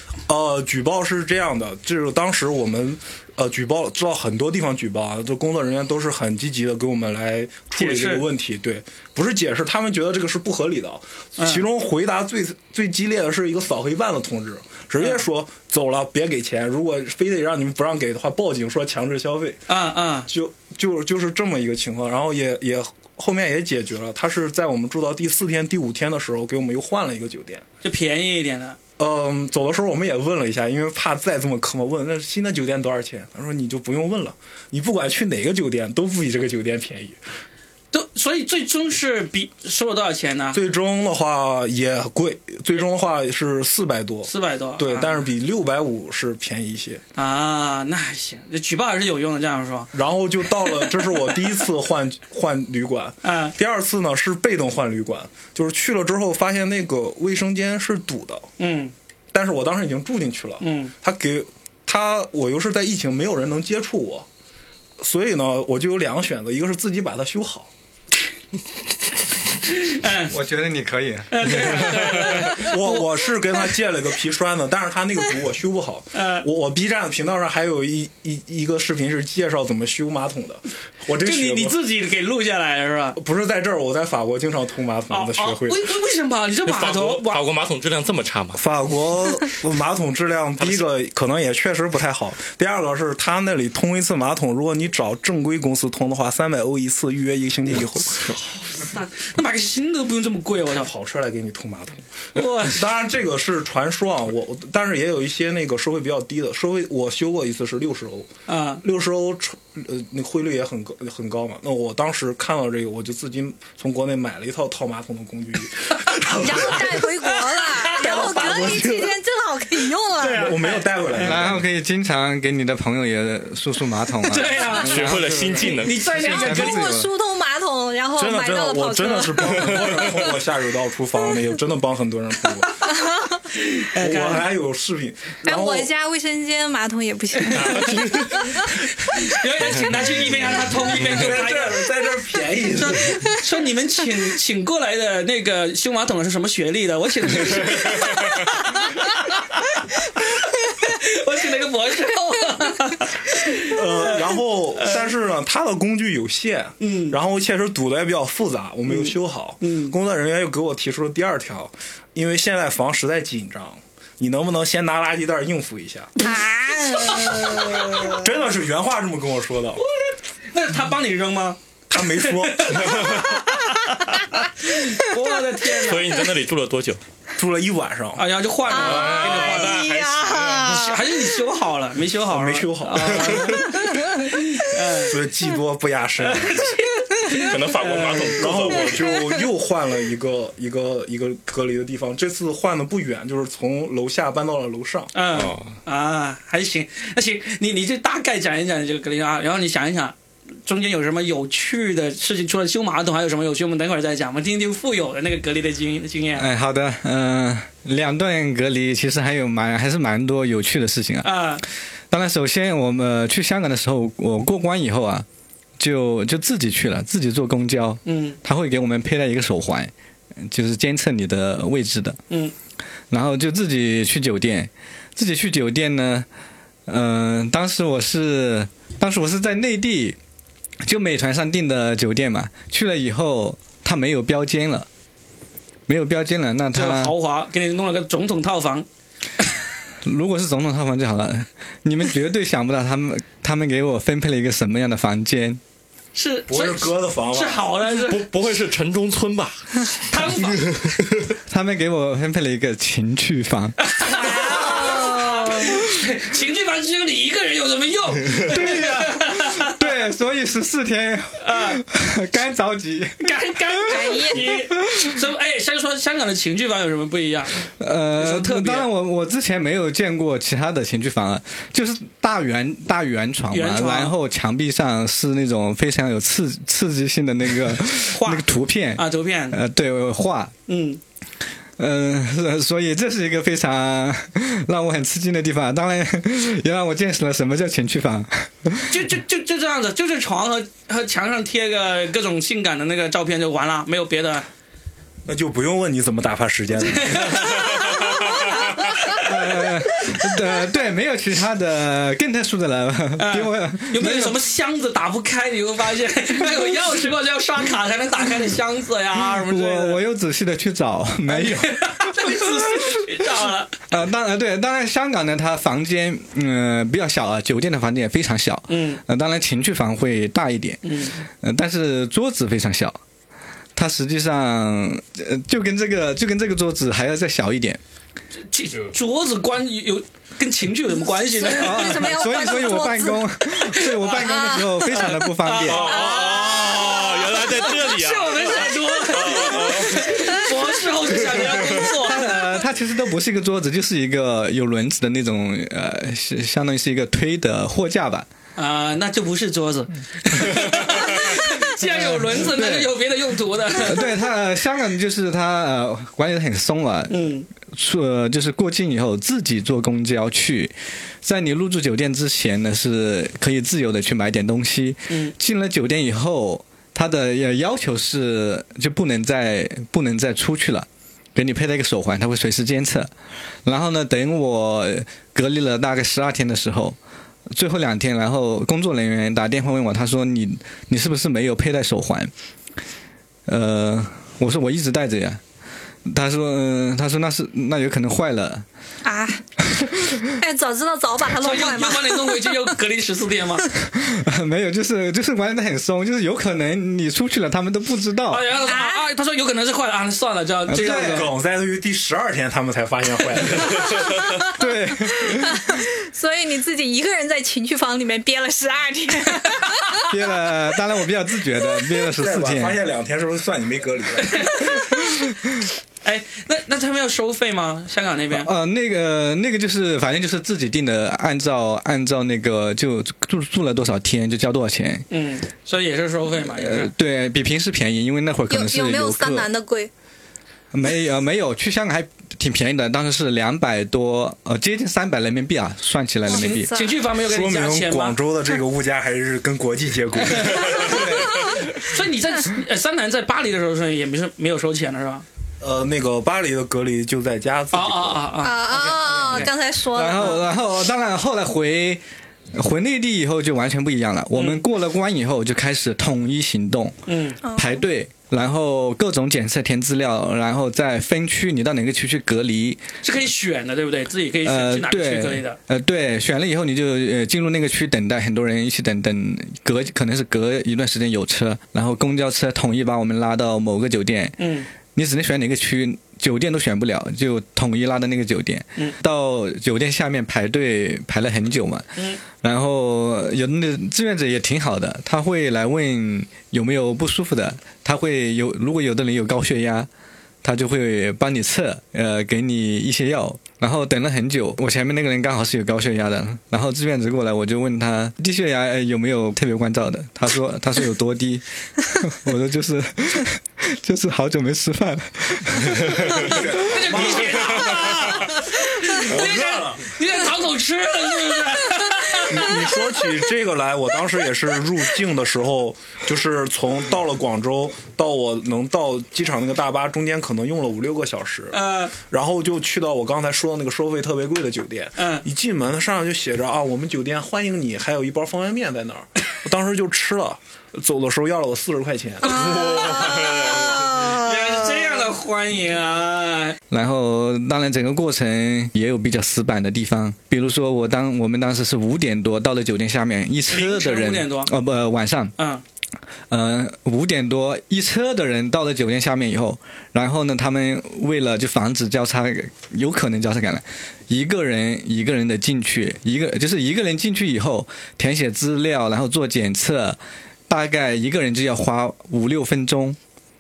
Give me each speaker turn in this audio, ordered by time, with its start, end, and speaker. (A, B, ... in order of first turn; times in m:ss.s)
0:00.3-0:19.6 A
0:07.8-0:08.2 B
0:11.4-0:11.6 B
0:15.0-0:15.2 B
0:19.7-0:20.3 B
0:20.3-0:27.6 A
0:27.8-0:28.8 B
0:29.0-0:37.2 A
0:37.9-0:40.6 B
0:40.5-0:47.0 A
0:44.3-0:45.2 B
0:47.2-0:49.9 B
0:49.9-0:58.5 A
0:53.2-0:53.6 B
0:58.6-0:58.9 B
0:59.3-1:04.3 A
1:00.6-1:00.9 B
1:05.0-1:07.7 A
1:09.7-1:10.4 B
1:10.3-1:12.0 C
1:11.3-1:13.1 B
1:12.0-1:21.8 A
1:16.1-1:16.5 B
1:21.2-1:23.2 B
1:23.2-1:25.8 A
1:25.1-1:27.4 B
1:26.7-1:28.6 D
1:28.6-1:38.4 A
1:38.6-1:40.9 B
1:40.8-1:42.0 A
1:42.4-1:42.8 B
1:42.6-1:48.3 A
1:48.5-1:48.8 B
1:48.8-1:57.2 A
1:56.4-2:00.6 E
1:57.6-1:58.8 B
1:58.0-1:59.2 A
2:00.2-2:01.5 B
2:00.3-2:01.6 A
2:01.2-2:07.1 C
2:04.3-2:06.8 B
2:04.7-2:06.0 D
2:06.1-2:10.3 E
2:08.2-2:12.8 A
2:12.9-2:13.4 E
2:13.5-2:14.5 B
2:14.0-2:15.9 A
2:15.4-2:18.7 E
2:17.3-2:18.2 B
2:17.6-2:18.3 D
2:19.1-2:21.8 B
2:20.8-2:23.2 A
2:22.8-2:35.1 B
2:33.6-2:46.1 A
2:36.8-2:37.2 B
2:38.9-2:40.0 B
2:46.2-2:48.2 E
2:46.9-2:48.1 B
2:48.1-2:49.8 A
2:49.8-2:56.1 B
2:51.9-2:53.4 A
2:55.8-2:57.0 D
2:57.4-2:58.2 A
2:58.2-2:59.9 B
2:58.7-3:00.9 D
2:58.7-3:00.9 E
3:00.7-3:05.2 B
3:02.2-3:03.8 A
3:03.9-3:04.3 E
3:05.0-3:06.7 A
3:06.3-3:08.8 B
3:07.3-3:09.1 D
3:08.4-3:15.1 A
3:15.1-3:20.2 B
3:15.3-3:15.7 D
3:20.7-3:26.5 B
3:26.4-3:31.3 C
3:31.2-3:31.6 B
3:32.1-3:35.3 C
3:35.8-3:42.2 C
3:38.1-3:38.4 B
3:43.1-3:46.3 C
3:46.9-3:50.2 C
3:50.8-3:54.9 C
3:55.9-3:57.1 C
3:56.7-3:58.9 B
4:00.0-4:05.6 C
4:06.2-4:08.3 B
4:06.5-4:07.7 A
4:08.0-4:09.9 D
4:10.1-4:10.8 B
4:10.5-4:11.0 D
4:11.5-4:13.8 C
4:13.8-4:19.7 B
4:14.0-4:15.8 E
4:18.5-4:25.1 C
4:21.4-4:21.8 B
4:23.2-4:27.6 B
4:23.9-4:24.5 E
4:27.8-4:40.5 C
4:28.2-4:28.9 B
4:33.5-4:34.2 B
4:38.1-4:39.6 B
4:40.7-4:41.0 B
4:41.8-4:49.0 C
4:48.9-4:54.5 B
4:55.3-4:57.6 A
4:56.8-4:59.6 B
4:59.1-5:04.4 C
5:03.2-5:10.0 B
5:09.2-5:13.1 C
5:11.3-5:13.7 B
5:13.9-5:23.0 C
5:18.7-5:19.0 B
5:20.8-5:21.2 B
5:23.8-5:27.8 C
5:28.5-5:32.1 B
5:31.2-5:35.1 E
5:31.5-5:36.0 C
5:34.9-5:42.3 B
5:35.6-5:40.5 D
5:36.0-5:36.9 E
5:39.2-5:39.8 E
5:41.5-5:41.8 D
5:42.0-5:48.3 C
5:48.6-5:54.1 B
5:51.8-5:53.0 C
5:53.8-6:13.1 C
5:57.1-5:57.5 B
6:05.1-6:05.3 B
6:13.6-6:17.0 C
6:17.5-6:22.3 C
6:23.5-6:25.4 C
6:26.0-6:28.7 C
6:29.0-6:29.4 E
6:29.8-6:30.2 C
6:30.3-6:32.6 E
6:31.4-6:33.7 B
6:33.9-6:38.5 C
6:38.3-6:41.3 B
6:38.6-6:39.0 E
6:40.7-6:41.3 C
6:40.7-6:44.1 A
6:44.2-6:44.5 E
6:44.4-6:45.8 C
6:45.4-6:50.0 E
6:50.0-6:52.8 C
6:52.2-6:54.8 A
6:54.3-6:54.8 B
6:56.0-6:58.5 B
6:58.3-7:05.1 C
7:05.1-7:06.9 B
7:06.4-7:09.5 C
7:08.5-7:09.9 E
7:10.7-7:16.8 C
7:16.3-7:17.0 E
7:16.7-7:18.2 B
7:17.2-7:21.1 A
7:20.4-7:25.2 B
7:20.8-7:21.6 C
7:25.6-7:28.3 A
7:27.7-7:29.5 B
7:28.4-7:30.5 E
7:29.9-7:32.0 C
7:32.5-7:37.0 C
7:34.3-7:34.6 B
7:37.1-7:37.4 B
7:37.4-7:37.7 E
7:37.5-7:42.8 C
7:43.0-7:45.6 B
7:44.4-7:54.4 C
7:54.4-7:54.7 B
7:54.9-8:09.9 C
8:10.4-8:26.5 C
8:26.2-8:28.2 A
8:26.5-8:32.7 B
8:28.9-8:30.0 A
8:32.3-8:52.4 A
8:41.5-8:42.0 B
8:45.0-8:45.2 B
8:52.2-8:54.0 D
8:52.4-8:54.9 E
8:54.0-8:56.6 B
8:56.7-9:05.3 C
9:03.5-9:04.5 B
9:05.4-9:05.6 B
9:06.3-9:23.0 C